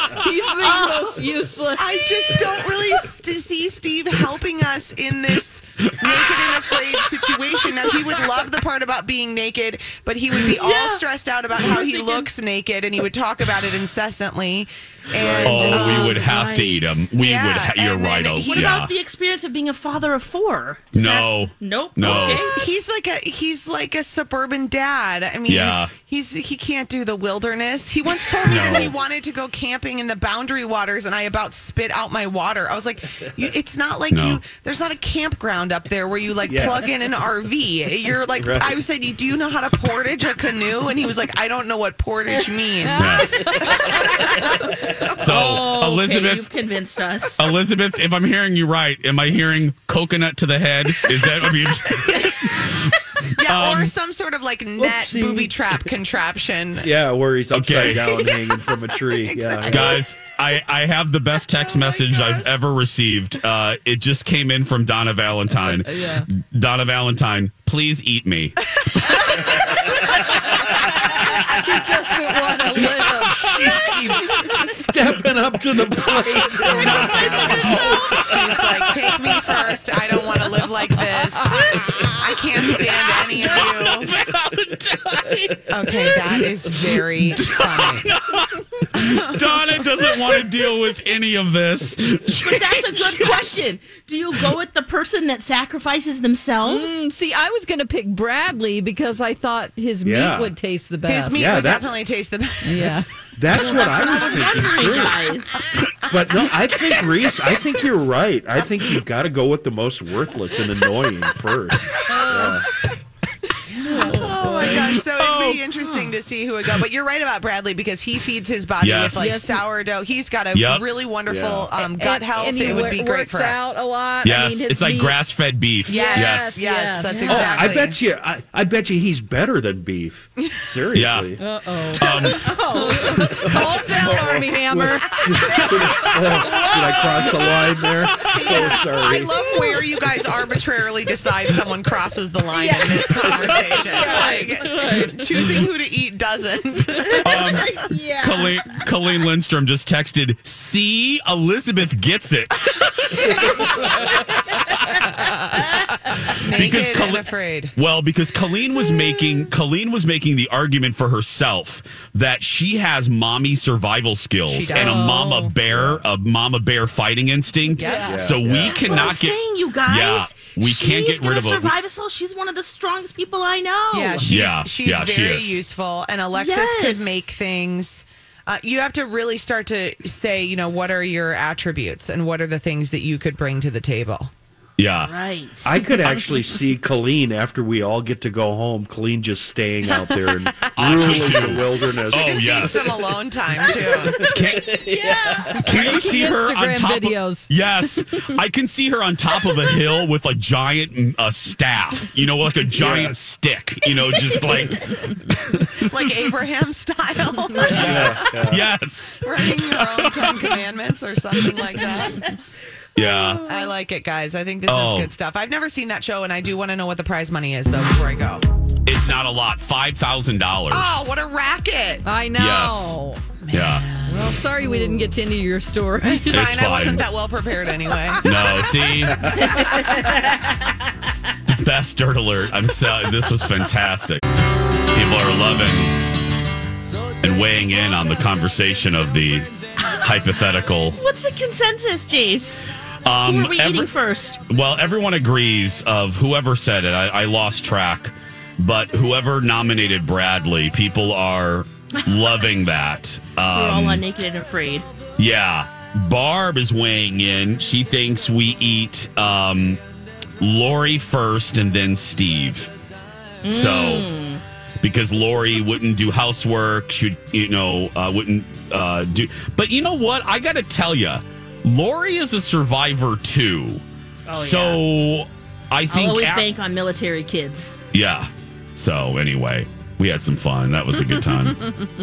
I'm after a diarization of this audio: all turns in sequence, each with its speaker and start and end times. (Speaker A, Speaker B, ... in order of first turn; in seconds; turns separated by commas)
Speaker A: 0.1-2.3, Speaker B: 0.7-1.1, Speaker C: 1.8-16.3, Speaker D: 5.9-6.5, Speaker B: 10.3-11.0, Speaker B: 11.6-12.3, Speaker E: 15.1-16.0, Speaker B: 15.4-17.1, Speaker D: 15.4-18.9, Speaker C: 17.1-18.8, Speaker B: 18.4-22.8, Speaker D: 20.9-22.5, Speaker C: 22.0-44.6, Speaker D: 25.5-25.9, Speaker D: 28.5-28.9, Speaker D: 34.1-34.4, Speaker E: 36.5-36.9, Speaker E: 38.4-38.8, Speaker D: 43.0-43.4, Speaker B: 43.0-47.5, Speaker D: 45.2-46.4, Speaker D: 47.4-53.9, Speaker C: 53.3-56.9, Speaker E: 54.8-55.9, Speaker E: 56.8-60.0, Speaker D: 57.5-58.2, Speaker C: 58.1-58.6, Speaker C: 59.1-60.0, Speaker D: 59.6-68.6, Speaker C: 61.8-62.3, Speaker A: 65.6-66.3, Speaker C: 68.8-69.6, Speaker A: 69.0-73.9, Speaker E: 72.8-78.5, Speaker D: 76.6-79.7, Speaker C: 76.8-84.1, Speaker D: 80.9-93.4, Speaker C: 85.7-88.1, Speaker C: 89.0-89.3, Speaker B: 92.4-97.0, Speaker A: 96.6-101.6, Speaker E: 100.0-100.5, Speaker C: 101.0-103.0, Speaker E: 101.3-102.0, Speaker A: 102.6-103.0, Speaker E: 103.3-105.3, Speaker C: 103.5-105.2, Speaker B: 103.5-105.6, Speaker C: 105.8-106.2, Speaker E: 106.1-112.7, Speaker C: 106.9-107.2, Speaker A: 112.1-112.6, Speaker B: 113.7-114.7, Speaker A: 113.8-114.9, Speaker C: 114.0-123.6, Speaker D: 115.0-115.6, Speaker D: 118.8-119.2, Speaker A: 119.1-119.6, Speaker D: 120.5-120.8, Speaker E: 121.3-121.7, Speaker A: 121.8-125.2, Speaker E: 122.6-122.9, Speaker D: 124.2-126.6, Speaker C: 125.8-128.0, Speaker A: 125.9-127.8, Speaker B: 127.0-127.5, Speaker E: 127.2-131.4, Speaker D: 130.9-131.3, Speaker A: 131.4-136.7, Speaker D: 131.9-132.5, Speaker C: 132.0-132.4, Speaker B: 132.2-133.1, Speaker D: 133.1-133.5, Speaker E: 133.2-139.4, Speaker C: 136.4-148.0, Speaker B: 142.5-145.2, Speaker A: 143.9-144.8, Speaker D: 147.2-153.4, Speaker B: 147.3-148.6, Speaker B: 153.3-153.8, Speaker D: 156.2-171.7, Speaker C: 156.3-157.8, Speaker C: 164.5-165.1, Speaker A: 164.7-165.6, Speaker E: 165.7-166.0, Speaker C: 167.7-168.2, Speaker A: 167.8-168.2, Speaker E: 168.0-169.1, Speaker B: 168.5-174.3, Speaker C: 173.9-184.3, Speaker D: 174.2-175.6, Speaker B: 176.3-177.3, Speaker D: 184.8-185.1, Speaker B: 185.1-185.9, Speaker E: 185.6-192.9, Speaker D: 190.8-193.0, Speaker C: 190.8-191.1, Speaker C: 192.1-194.4, Speaker B: 193.7-195.8, Speaker D: 194.2-194.7, Speaker A: 195.1-198.2, Speaker D: 195.6-206.3, Speaker E: 202.7-203.2, Speaker C: 205.8-208.5, Speaker D: 207.7-210.6, Speaker E: 207.8-208.7, Speaker C: 209.2-212.3, Speaker D: 211.3-211.7, Speaker D: 212.9-213.4, Speaker C: 213.0-218.4, Speaker D: 214.7-215.1, Speaker D: 218.8-221.0, Speaker C: 220.7-222.0, Speaker A: 222.0-223.2, Speaker D: 222.3-222.9, Speaker C: 223.5-225.1, Speaker D: 223.5-223.9, Speaker A: 224.1-226.7, Speaker C: 226.0-228.4, Speaker D: 226.3-227.1, Speaker D: 228.2-229.2, Speaker E: 229.0-229.5, Speaker B: 229.3-230.6, Speaker D: 231.5-234.2, Speaker D: 234.9-236.1, Speaker D: 237.2-241.0, Speaker B: 240.9-242.7, Speaker D: 243.1-243.9, Speaker B: 243.2-244.4, Speaker D: 244.5-254.0, Speaker B: 253.5-254.9, Speaker D: 255.2-259.8, Speaker D: 260.4-262.7, Speaker B: 263.4-264.4, Speaker D: 263.5-264.1, Speaker D: 264.8-276.4, Speaker B: 274.3-274.8, Speaker B: 275.9-277.7, Speaker D: 277.9-281.6, Speaker A: 281.0-281.7